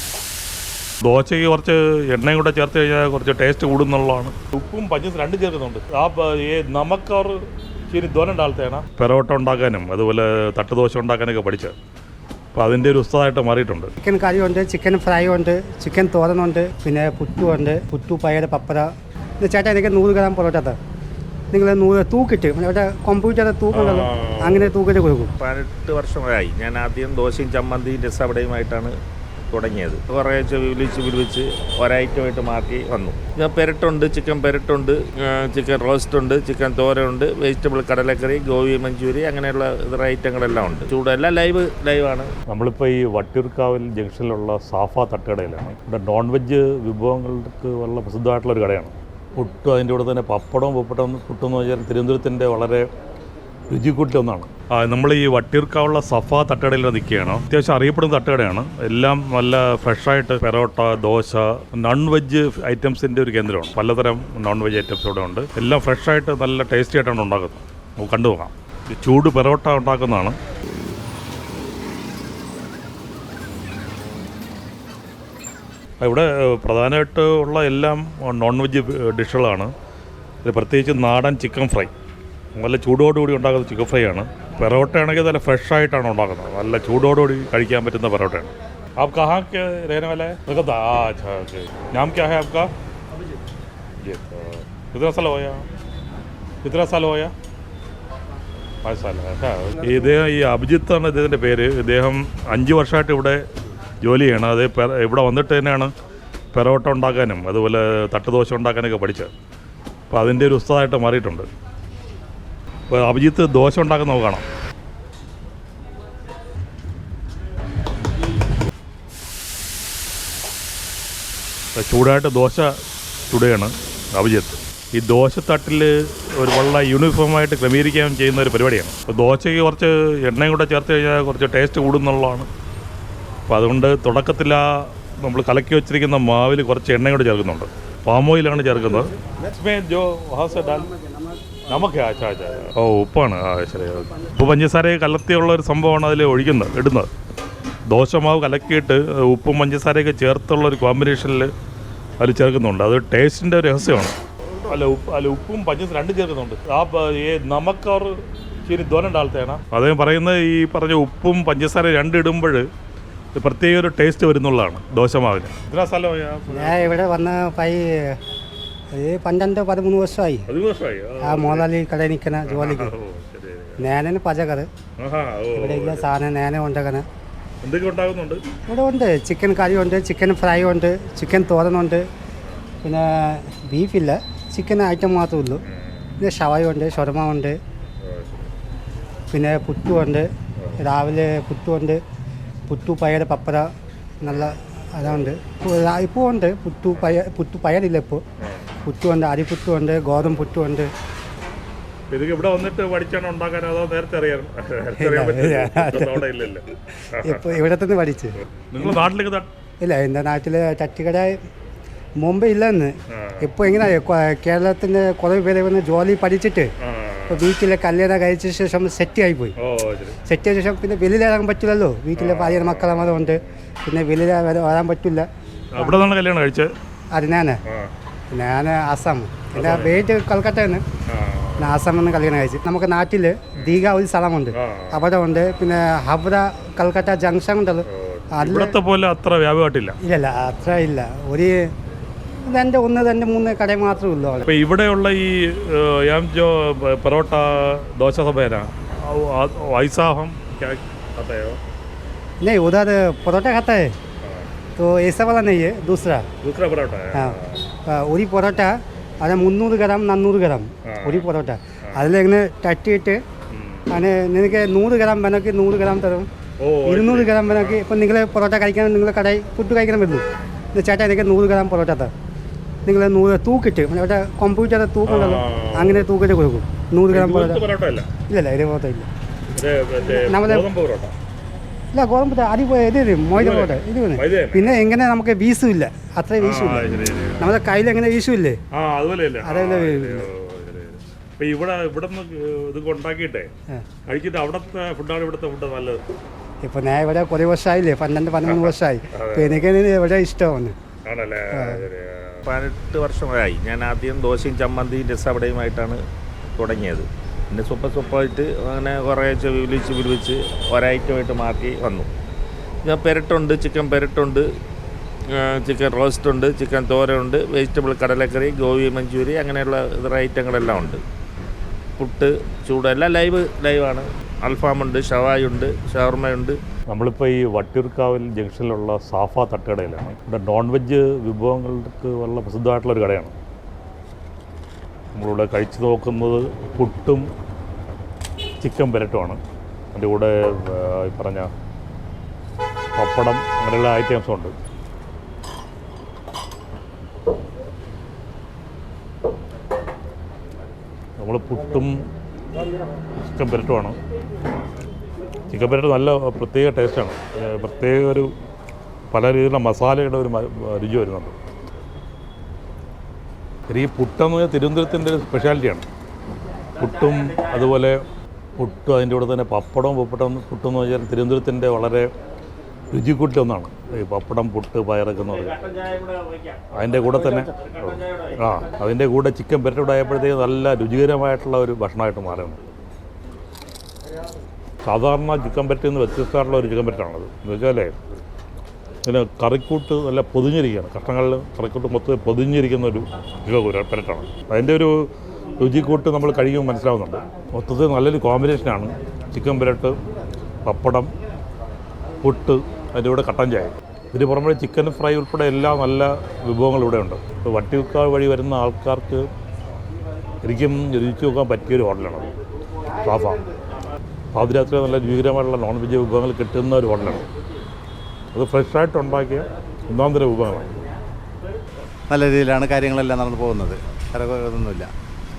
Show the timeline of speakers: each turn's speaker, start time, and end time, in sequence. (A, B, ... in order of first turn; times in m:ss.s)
0:01.0-0:07.4 A
0:07.9-0:11.8 A
0:12.5-0:13.9 A
0:14.0-0:18.9 B
0:19.4-0:20.8 B
0:21.5-0:25.3 B
0:23.7-0:24.8 A
0:25.4-0:28.9 C
0:29.5-0:42.3 C
0:42.5-0:52.9 A
0:53.7-1:10.4 A
1:16.0-1:19.7 A
1:20.4-1:21.9 A
1:22.5-1:32.7 A
1:34.0-1:35.6 A
1:36.6-1:37.3 A
1:38.8-1:43.4 A
1:44.0-1:45.9 A
1:46.5-1:49.3 A
1:50.1-1:51.5 A
1:52.9-1:54.4 A
2:01.7-2:02.7 A
2:03.3-2:12.5 A
2:13.5-2:20.9 A
2:21.7-2:27.1 A
2:27.9-2:31.5 A
2:32.2-2:42.7 A
2:43.3-2:46.9 A
2:46.5-2:48.2 B
2:48.9-2:50.5 B
2:50.5-2:51.7 A
2:51.2-2:52.9 B
2:52.4-2:53.8 A
2:53.8-2:54.7 B
2:55.0-2:56.0 A
2:55.5-2:57.1 B
2:57.6-2:58.4 A
2:58.7-3:02.0 B
3:02.8-3:05.6 B
3:05.7-3:06.1 A
3:06.2-3:07.6 B
3:08.0-3:08.4 A
3:09.3-3:10.3 B
3:10.8-3:12.0 B
3:12.7-3:13.7 B
3:14.2-3:18.2 B
3:18.4-3:18.7 A
3:18.8-3:20.9 B
3:22.1-3:27.6 A
3:25.0-3:26.2 B
3:27.1-3:29.0 B
3:28.7-3:29.5 A
3:29.8-3:31.4 B
3:32.2-3:36.7 B
3:33.1-3:33.5 A
3:36.8-3:37.4 A
3:37.3-3:39.5 B
3:39.6-3:40.2 A
3:40.2-3:45.3 B
3:42.2-3:43.7 A
3:45.7-3:46.7 A
3:47.1-3:47.6 B
3:47.6-3:47.9 A
3:48.3-3:50.8 B
3:49.5-3:50.0 A
3:51.1-3:51.8 A
3:51.6-3:58.8 B
3:54.5-3:55.1 A
3:57.9-4:00.0 A
4:00.0-4:01.7 B
4:02.5-4:04.5 B
4:04.4-4:11.6 A
4:12.4-4:13.9 B
4:14.8-4:16.3 B
4:16.4-4:17.6 A
4:17.1-4:23.2 B
4:20.8-4:21.3 A
4:23.5-4:23.9 A
4:23.9-4:26.3 B
4:26.6-4:27.8 A
4:26.8-4:32.1 B
4:32.8-4:37.6 B
4:35.0-4:36.1 A
4:37.1-4:38.1 A
4:38.3-4:39.1 B
4:39.6-4:41.1 A
4:40.0-4:40.7 B
4:41.9-4:48.6 B
4:43.4-4:44.9 A
4:46.4-4:47.6 A
4:48.7-4:53.5 A
4:49.4-4:50.3 B
4:54.1-4:56.0 A
4:56.6-5:00.8 B
4:58.4-4:59.7 A
5:01.0-5:02.5 A
5:01.5-5:01.8 B
5:02.5-5:06.0 C
5:06.6-5:12.1 C
5:12.8-5:14.5 C
5:15.3-5:21.0 C
5:22.0-5:26.6 C
5:26.9-5:33.3 A
5:35.1-5:37.3 A
5:38.6-5:39.4 A
5:39.9-5:41.5 A
5:43.0-5:44.6 A
5:51.2-5:52.0 A
5:53.2-5:54.0 A
5:55.5-5:58.3 A
5:59.1-6:01.4 A
6:03.7-6:05.8 A
6:06.8-6:08.0 A
6:08.6-6:12.1 A
6:12.9-6:15.5 A
6:15.5-6:16.6 C
6:16.7-6:22.7 A
6:17.3-6:18.3 C
6:24.8-6:27.9 A
6:29.0-6:35.0 A
6:35.6-6:39.9 A
6:40.6-6:41.1 A
6:42.2-6:49.3 A
6:50.4-6:52.3 A
6:53.0-6:53.4 A
6:54.3-6:57.2 A
6:58.3-7:00.8 A
7:02.1-7:04.9 D